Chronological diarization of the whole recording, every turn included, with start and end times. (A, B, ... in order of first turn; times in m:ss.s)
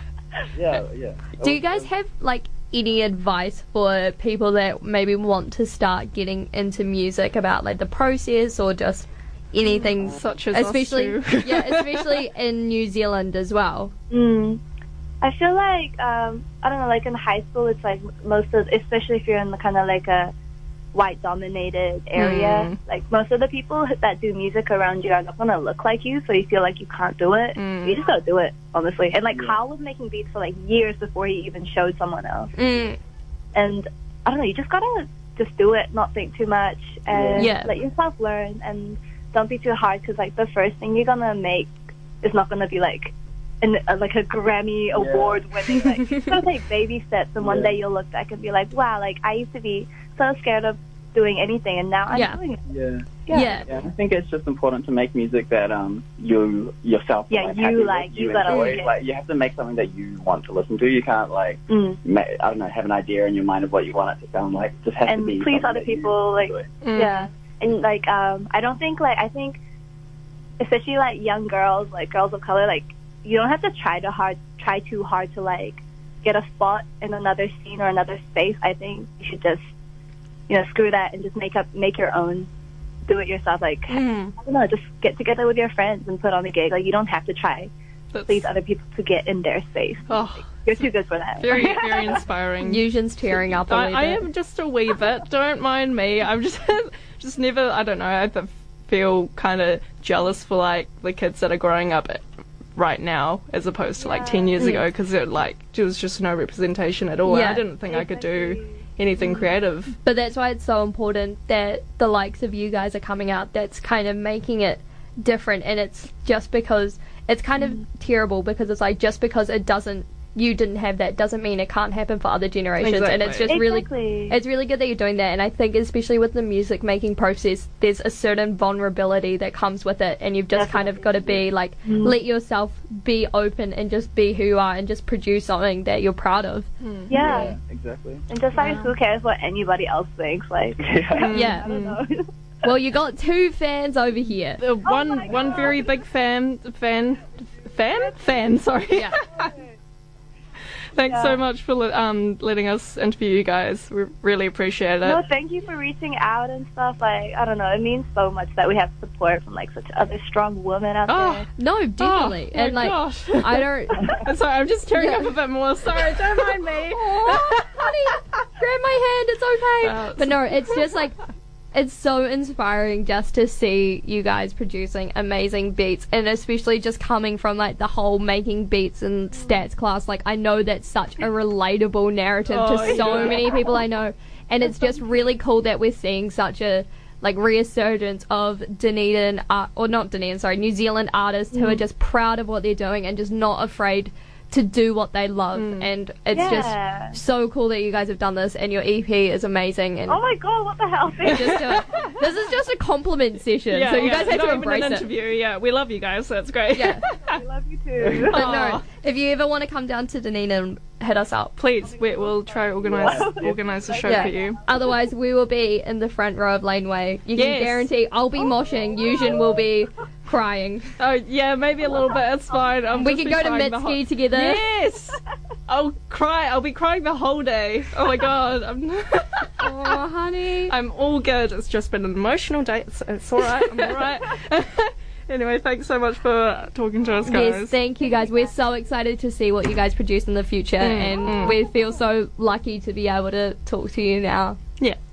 0:00.5-0:01.9 A
0:01.4-0:13.9 B
0:09.6-0:09.9 C
0:10.0-0:12.2 D
0:14.1-0:14.6 C
0:15.2-0:20.3 C
0:20.9-0:32.5 C
0:22.2-0:22.8 D
0:27.6-0:28.0 D
0:29.3-0:29.6 A
0:32.6-0:33.0 B
0:33.5-0:52.6 C
0:37.1-0:37.5 A
0:37.4-0:37.7 B
0:44.9-0:45.9 A
0:47.4-0:47.8 A
0:52.1-0:52.4 B
0:52.7-1:06.6 A
0:53.2-0:53.7 C
0:53.3-0:53.7 B
0:57.3-0:58.9 C
0:58.5-0:58.8 B
1:01.7-1:02.0 C
1:05.0-1:09.6 C
1:06.8-1:07.3 D
1:10.6-1:19.6 C
1:20.5-1:22.5 C
1:23.1-1:27.7 C
1:23.9-1:24.3 D
1:28.1-1:28.5 D
1:28.2-1:32.2 C
1:30.1-1:30.8 D
1:31.4-1:42.2 D
1:32.6-1:34.2 B
1:42.7-1:50.0 D
1:44.0-1:44.8 C
1:44.6-1:44.8 B
1:47.2-1:47.6 B
1:47.9-1:48.8 C
1:50.0-2:16.7 B
2:02.8-2:03.5 D
2:03.5-2:04.4 C
2:10.5-2:12.2 C
2:16.8-2:17.1 D
2:17.1-2:17.6 C
2:17.1-2:18.2 A
2:18.3-2:22.3 C
2:18.6-2:18.9 B
2:20.8-2:21.4 A
2:21.2-2:22.0 D
2:21.3-2:21.7 B
2:22.6-2:24.6 B
2:24.6-2:29.6 D
2:24.8-2:25.9 C
2:28.9-2:29.2 B
2:29.4-2:29.7 C
2:31.0-2:35.2 D
2:31.1-2:31.4 C
2:35.0-2:41.4 C
2:41.1-2:41.4 D
2:41.6-2:44.2 B
2:42.0-2:47.6 D
2:45.0-2:45.3 B
2:46.8-2:51.2 B
2:49.8-2:50.9 D
2:51.7-3:20.2 B
2:59.3-2:59.6 C
3:02.5-3:03.8 D
3:11.5-3:11.8 C
3:15.5-3:15.9 D
3:16.3-3:17.2 C
3:20.1-3:22.0 C
3:21.2-3:25.1 B
3:21.4-3:22.1 D
3:23.7-3:27.4 D
3:26.7-3:27.0 B
3:27.3-3:28.4 C
3:28.2-3:28.8 D
3:28.3-3:31.6 B
3:31.6-3:34.6 D
3:32.8-3:33.6 A
3:33.0-3:33.4 C
3:34.0-3:40.9 B
3:34.0-3:34.3 C
3:37.3-3:37.9 D
3:41.0-3:50.0 D
3:43.0-3:44.6 B
3:49.6-3:50.7 B
3:50.7-3:57.7 D
3:53.4-3:53.9 B
3:57.3-4:04.6 B
3:58.0-3:58.4 C
4:00.8-4:01.6 D